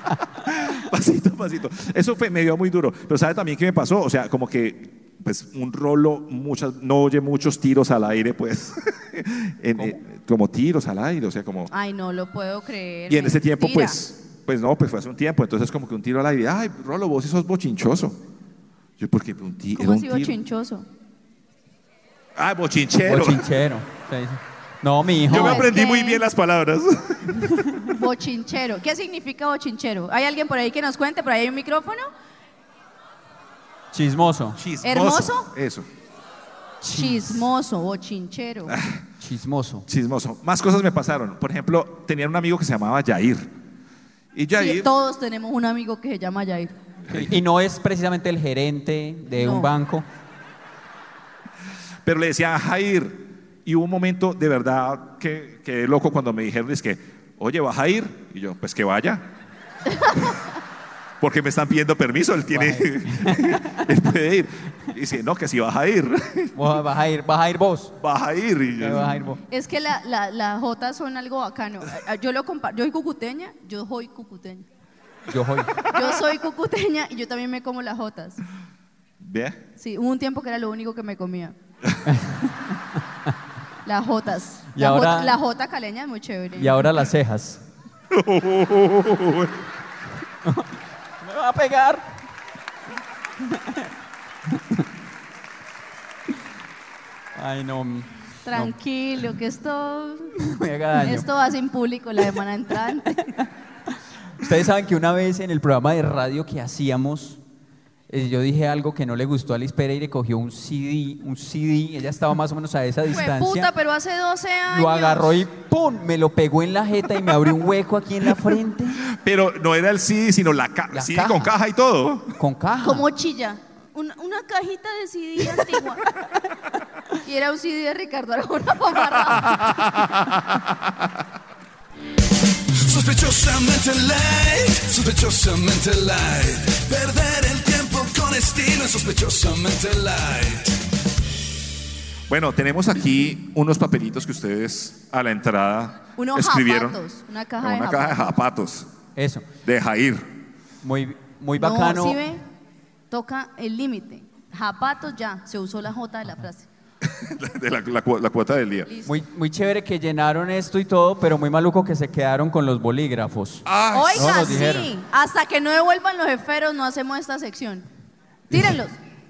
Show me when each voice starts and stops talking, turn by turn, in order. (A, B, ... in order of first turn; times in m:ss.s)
0:00.4-0:11.7 A
0:09.7-0:10.0 B
0:11.7-0:14.0 C
0:13.1-0:18.2 A
0:19.0-0:20.4 A
0:19.8-0:20.8 C
0:22.4-0:23.5 A
0:23.0-0:25.6 B
0:25.2-0:27.5 A
0:25.3-0:26.2 C
0:27.4-0:27.9 B
0:27.9-0:32.1 C
0:33.9-0:34.6 B
0:34.6-0:35.9 A
0:34.8-0:35.5 C
0:36.8-0:37.5 B
0:36.9-0:38.8 C
0:38.7-0:39.0 A
0:39.2-0:39.9 B
0:39.9-0:43.5 A
0:44.3-0:44.9 A
0:44.6-0:46.7 C
0:47.1-0:47.4 A
0:47.1-0:50.0 B
0:49.3-0:49.7 C
0:52.0-0:59.3 A
1:01.2-1:06.7 A
1:02.5-1:03.9 B
1:06.5-1:07.9 B
1:08.0-1:09.3 A
1:08.8-1:09.4 B
1:09.5-1:14.6 C
1:15.3-1:15.8 B
1:15.8-1:18.4 C
1:19.2-1:19.6 A
1:19.8-1:21.5 C
1:22.0-1:23.3 B
1:23.8-1:26.9 C
1:24.7-1:25.4 B
1:26.6-1:27.6 B
1:28.1-1:29.6 A
1:31.2-1:32.1 B
1:33.4-1:33.9 B
1:34.5-1:34.8 B
1:37.4-1:38.6 B
1:38.4-1:40.3 C
1:40.4-1:41.3 B
1:41.0-1:43.2 C
1:43.1-1:43.4 B
1:44.4-1:47.4 B
1:48.1-1:53.7 B
1:53.1-1:55.4 C
1:54.7-1:59.0 B
1:59.0-2:02.4 A
2:00.9-2:01.6 B
2:02.4-2:03.0 B
2:02.8-2:06.0 C
2:05.5-2:05.8 B
2:07.2-2:09.7 C
2:09.2-2:10.9 A
2:12.8-2:20.8 D
2:22.3-2:27.0 A
2:26.2-2:28.2 C
2:27.6-2:28.9 A
2:29.2-2:29.4 B
2:29.6-2:30.3 A
2:30.8-2:32.2 B
2:31.6-2:32.4 C
2:33.1-2:36.7 C
2:37.0-2:38.9 A
2:38.9-2:39.1 C
2:39.0-2:44.9 B
2:43.6-2:44.6 A
2:43.9-2:47.8 C
2:48.5-2:49.0 C